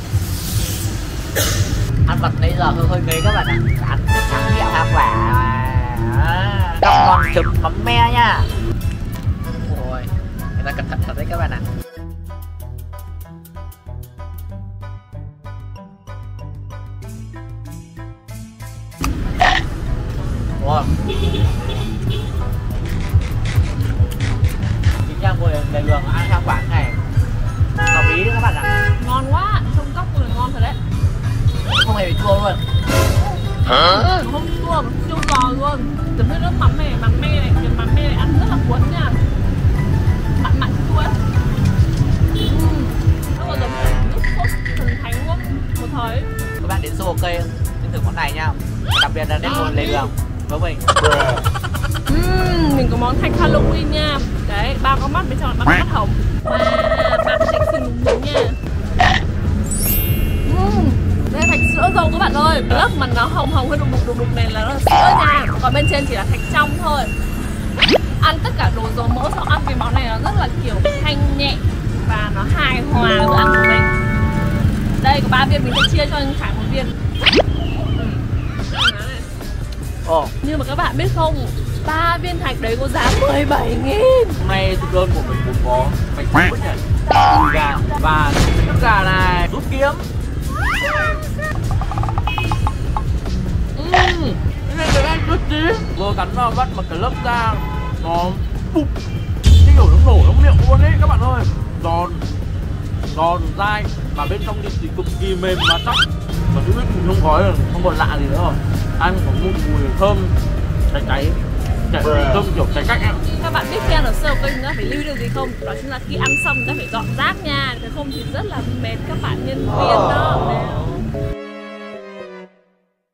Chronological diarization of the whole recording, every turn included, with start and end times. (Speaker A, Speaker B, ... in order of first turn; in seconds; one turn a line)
Speaker A: 2.0-8.5
Speaker A: 9.7-11.6
Speaker A: 20.6-20.9
Speaker A: 25.0-27.0
Speaker A: 27.9-28.7
Speaker B: 29.0-30.8
Speaker A: 31.7-32.6
Speaker B: 33.2-39.2
Speaker B: 40.4-41.2
Speaker B: 42.4-46.3
Speaker A: 46.6-50.8
Speaker B: 49.4-50.1
Speaker B: 52.1-58.6
Speaker B: 60.4-67.1
Speaker B: 68.2-73.9
Speaker B: 75.0-76.9
Speaker B: 77.8-79.3
Speaker A: 80.0-80.3
Speaker B: 80.4-84.4
Speaker C: 84.4-90.1
Speaker C: 93.7-98.9
Speaker C: 99.6-102.2
Speaker C: 103.1-110.3
Speaker C: 110.9-111.4
Speaker C: 111.9-113.2
Speaker B: 113.3-121.0